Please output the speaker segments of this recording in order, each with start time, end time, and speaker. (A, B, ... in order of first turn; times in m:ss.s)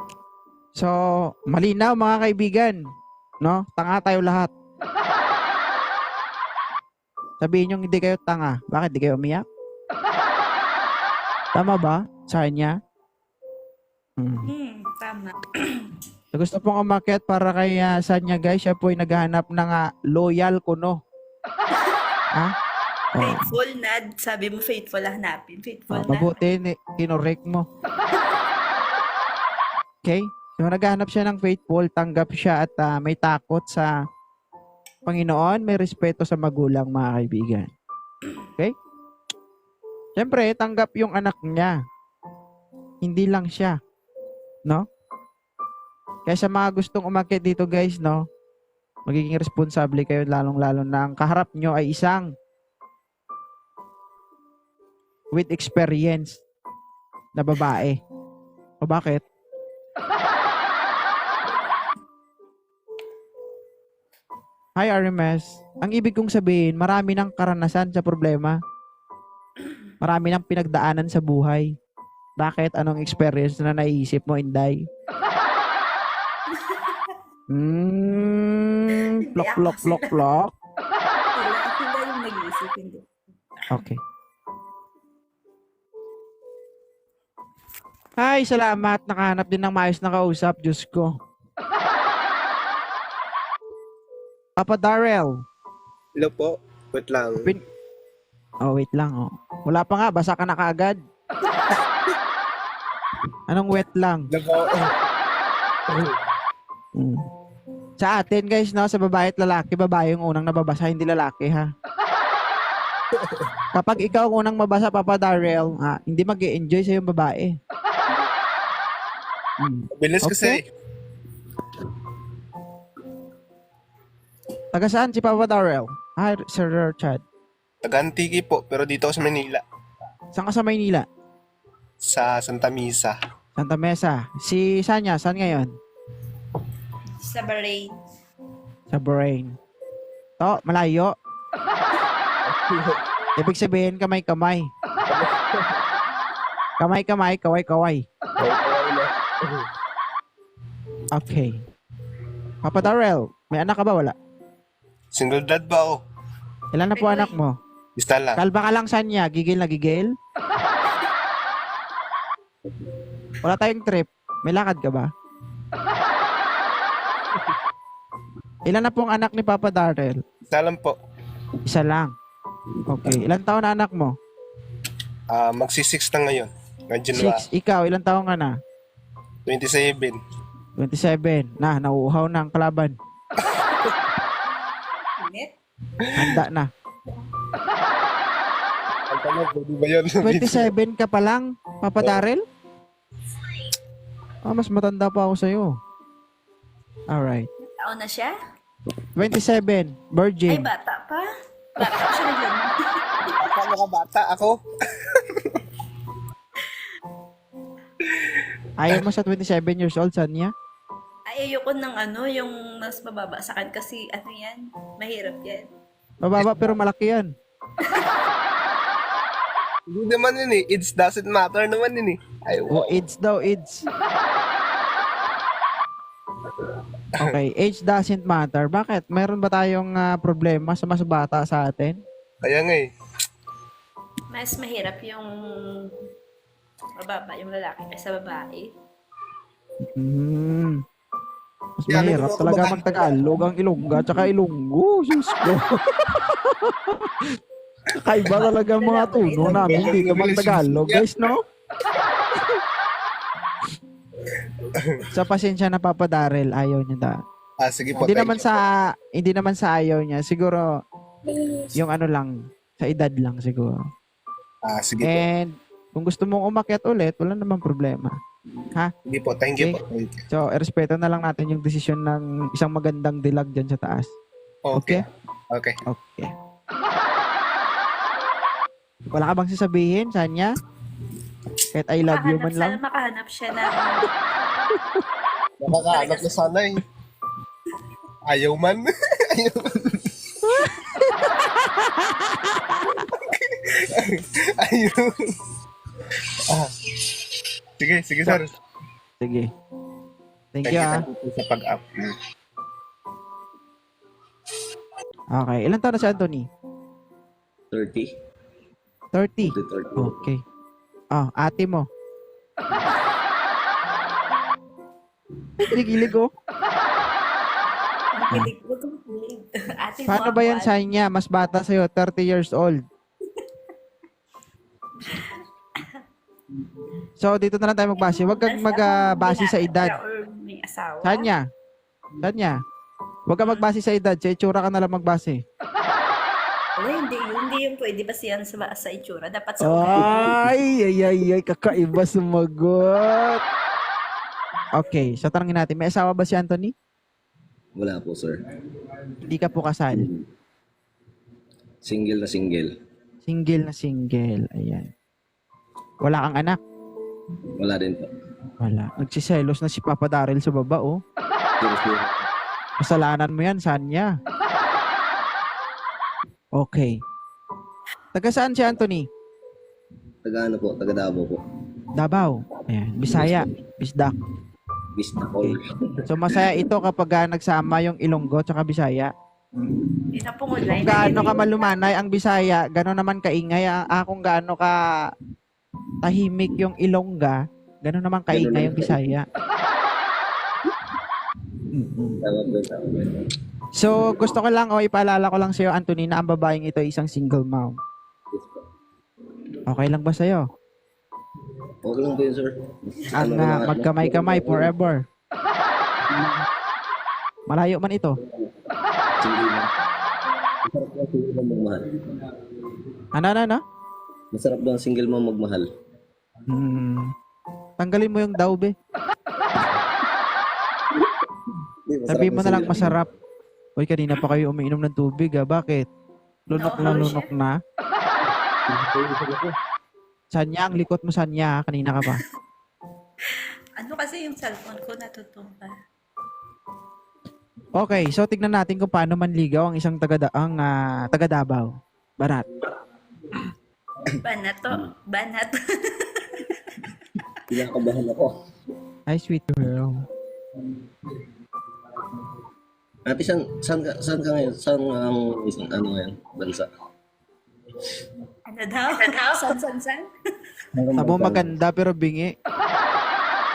0:00.8-0:02.8 A
0:03.4-0:04.5 A
0:07.4-0:09.4 A
0:11.5-0:12.8 A
0:14.2-0:14.5 A
0:14.4-0:15.9 B
0:16.3-0:21.0 A
0:23.1-0:23.4 A
0:23.2-0:26.5 B
0:25.9-0:27.7 A
0:30.0-0:33.9 A
0:35.1-0:37.7 A
0:40.2-0:41.8 A
0:43.0-0:43.8 A
0:46.3-0:48.2 A
0:49.1-0:52.3 A
0:55.3-0:56.4 A
0:57.4-0:58.0 A
0:58.8-0:59.2 A
1:04.8-1:08.6 A
1:10.0-1:11.7 A
1:12.4-1:14.8 A
1:16.5-1:17.0 B
1:17.5-1:20.5 A
1:18.9-1:20.3 B
1:21.4-1:23.1 B
1:23.7-1:24.0 A
1:28.2-1:31.2 A
1:34.6-1:35.3 A
1:36.2-1:37.5 C
1:38.6-1:41.0 A
1:43.5-1:44.3 A
1:44.3-1:44.9 C
1:45.9-1:46.2 C
1:47.0-1:47.2 A
1:48.0-1:51.7 A
1:53.2-1:53.5 C
1:53.7-1:57.6 A
1:59.6-2:00.6 A
1:59.9-2:00.6 C
2:04.7-2:07.2 A
2:07.8-2:09.6 C
2:10.3-2:11.1 A
2:12.0-2:13.2 C
2:13.6-2:15.8 A
2:17.2-2:18.0 B
2:18.9-2:19.6 A
2:20.4-2:21.2 A
2:22.5-2:23.0 C
2:23.4-2:24.7 A
2:25.1-2:25.5 C
2:26.8-2:28.1 A
2:28.4-2:29.6 C
2:31.1-2:31.6 A
2:32.6-2:34.2 A
2:35.1-2:36.0 C
2:36.7-2:37.6 A
2:37.0-2:37.4 B
2:38.0-2:38.4 C
2:38.4-2:40.1 A
2:43.4-2:45.1 A
2:48.6-2:50.2 A
2:50.5-2:51.0 C
2:51.7-2:52.2 A
2:52.9-2:54.2 A
2:55.3-2:57.4 C
2:57.1-2:58.6 A
2:59.5-3:00.2 C
3:00.8-3:03.0 A
3:03.4-3:04.0 C
3:05.2-3:05.5 B
3:06.0-3:06.4 C
3:06.2-3:06.7 A
3:09.1-3:10.7 C
3:10.2-3:12.4 A
3:14.4-3:15.8 A
3:17.1-3:17.5 A
3:17.7-3:18.4 B
3:19.2-3:20.7 A
3:20.5-3:23.3 B
3:23.3-3:25.6 C
3:28.0-3:29.0 C
3:28.8-3:30.5 A
3:31.3-3:35.7 B
3:36.2-3:37.3 A
3:37.8-3:38.1 B
3:39.9-3:43.0 C
3:42.7-3:43.8 A
3:47.2-3:52.0 A
3:52.4-3:52.9 C
3:54.3-3:56.0 B
3:57.0-3:58.7 B
3:59.8-4:00.8 A
4:01.8-4:07.3 A
4:01.9-4:03.2 C
4:07.9-4:11.4 A
4:08.3-4:10.0 B
4:09.5-4:11.4 C
4:14.7-4:15.1 C
4:15.1-4:17.2 A
4:17.6-4:18.6 C
4:18.0-4:20.7 A
4:21.7-4:23.8 A
4:24.6-4:25.2 C
4:25.0-4:28.2 A
4:29.1-4:30.3 C
4:30.3-4:34.1 A
4:34.6-4:35.8 C
4:34.8-4:35.0 A
4:35.9-4:36.3 A
4:39.1-4:40.6 A
4:41.7-4:42.8 A
4:42.1-4:44.1 B
4:45.6-4:46.8 C
4:45.8-4:46.4 B
4:48.2-4:50.5 C
4:50.4-4:53.0 A
4:53.0-4:55.5 C
4:56.2-4:58.5 C
4:59.2-4:59.5 A
5:00.5-5:01.0 A
5:00.6-5:02.2 C
5:05.3-5:06.5 A
5:07.7-5:08.1 D
5:09.1-5:10.4 A
5:09.4-5:10.2 D
5:11.1-5:11.9 A
5:15.6-5:16.3 A
5:18.2-5:20.7 B
5:20.1-5:22.8 A
5:25.0-5:26.0 B
5:27.2-5:30.0 A
5:28.0-5:31.3 B
5:31.0-5:31.5 A
5:32.2-5:32.6 A
5:33.3-5:35.4 A
5:36.8-5:40.3 B
5:39.6-5:43.4 A
5:44.7-5:46.7 A
5:47.8-5:48.4 D
5:49.2-5:50.1 A
5:49.9-5:50.2 D
5:51.8-5:52.7 D
5:53.2-5:54.9 A
5:56.0-5:56.6 A
5:57.4-5:58.1 D
5:58.6-6:01.0 A
6:01.6-6:02.2 D
6:02.8-6:04.1 A
6:06.6-6:07.0 A
6:08.1-6:09.1 A
6:10.2-6:11.4 D
6:12.0-6:14.2 A
6:13.1-6:13.5 D
6:14.9-6:16.6 D
6:16.1-6:19.8 A
6:20.1-6:21.8 B
6:20.7-6:24.8 A
6:26.0-6:29.3 A
6:28.3-6:29.1 D
6:31.7-6:32.2 A
6:32.2-6:33.3 D
6:33.8-6:37.8 A
6:38.3-6:38.6 D
6:39.7-6:40.4 A
6:41.8-6:44.7 D
6:43.2-6:45.0 A
6:47.5-6:48.2 A
6:48.2-6:48.5 D
6:49.2-6:49.7 D
6:50.6-6:52.9 D
6:53.1-6:53.6 A
6:54.3-6:55.7 D
6:56.5-6:57.1 A
6:57.8-6:58.8 A
7:01.9-7:03.0 D
7:02.1-7:03.1 A
7:03.8-7:05.9 A
7:06.5-7:07.6 A
7:06.6-7:07.3 B
7:08.7-7:09.6 D
7:10.3-7:12.2 A
7:13.3-7:15.7 B
7:17.8-7:22.5 A
7:24.2-7:26.9 B
7:27.5-7:28.4 D
7:29.1-7:30.0 A
7:33.1-7:36.7 D
7:38.5-7:40.1 B
7:40.7-7:41.5 D
7:41.0-7:42.3 A